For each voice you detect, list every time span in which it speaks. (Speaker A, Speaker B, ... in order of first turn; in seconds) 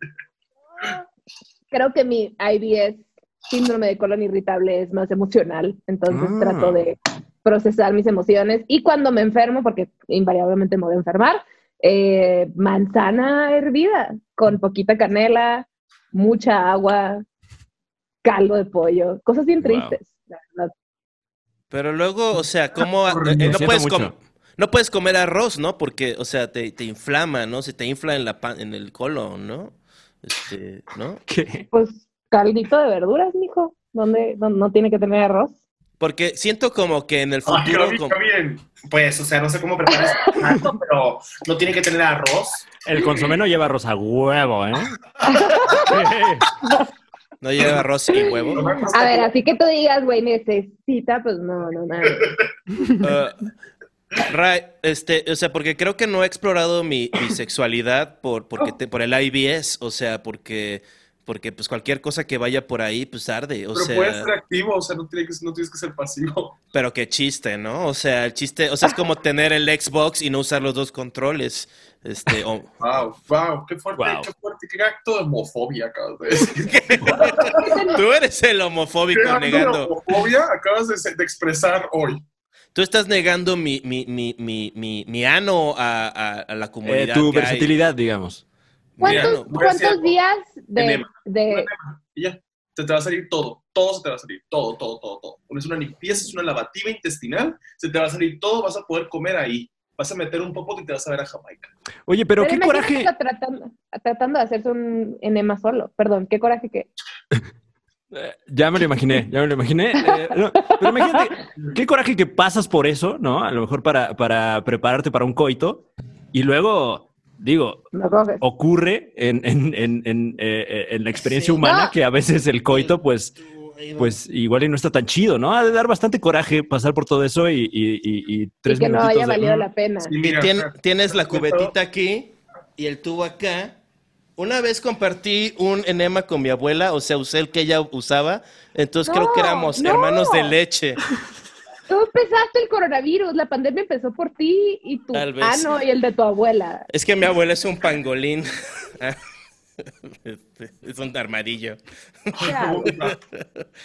Speaker A: 1.7-17.2, 18.2-20.7, 31.7-35.5, 45.2-46.0, 48.2-52.3, 77.3-78.0, 89.0-91.7, 102.4-106.9, 110.0-111.3, 117.9-118.4, 121.6-121.9, 128.7-130.1, 139.1-140.6, 141.9-146.8, 152.4-152.9
Speaker B: 6.1-6.8, 19.6-20.0, 23.4-24.1, 31.3-31.7, 42.8-45.0, 45.6-46.5, 74.0-74.3, 86.8-88.4, 102.1-103.1, 108.1-117.9, 118.4-123.4, 124.0-129.7
Speaker C: 21.7-31.2, 36.0-38.2, 47.4-48.7, 53.0-53.4, 54.2-64.3, 66.7-72.8, 76.4-80.0, 82.8-87.7, 89.0-89.5, 121.2-121.6, 122.7-124.1, 130.2-133.8, 134.4-141.0, 145.1-145.8, 146.9-149.2, 150.2-153.4
Speaker D: 23.1-23.6, 37.5-38.9, 39.8-40.6, 48.5-49.3, 63.8-66.6, 72.8-77.8, 79.1-82.2, 89.0-90.1, 90.8-101.7, 130.1-131.7, 152.4-153.2
Speaker E: 38.8-42.7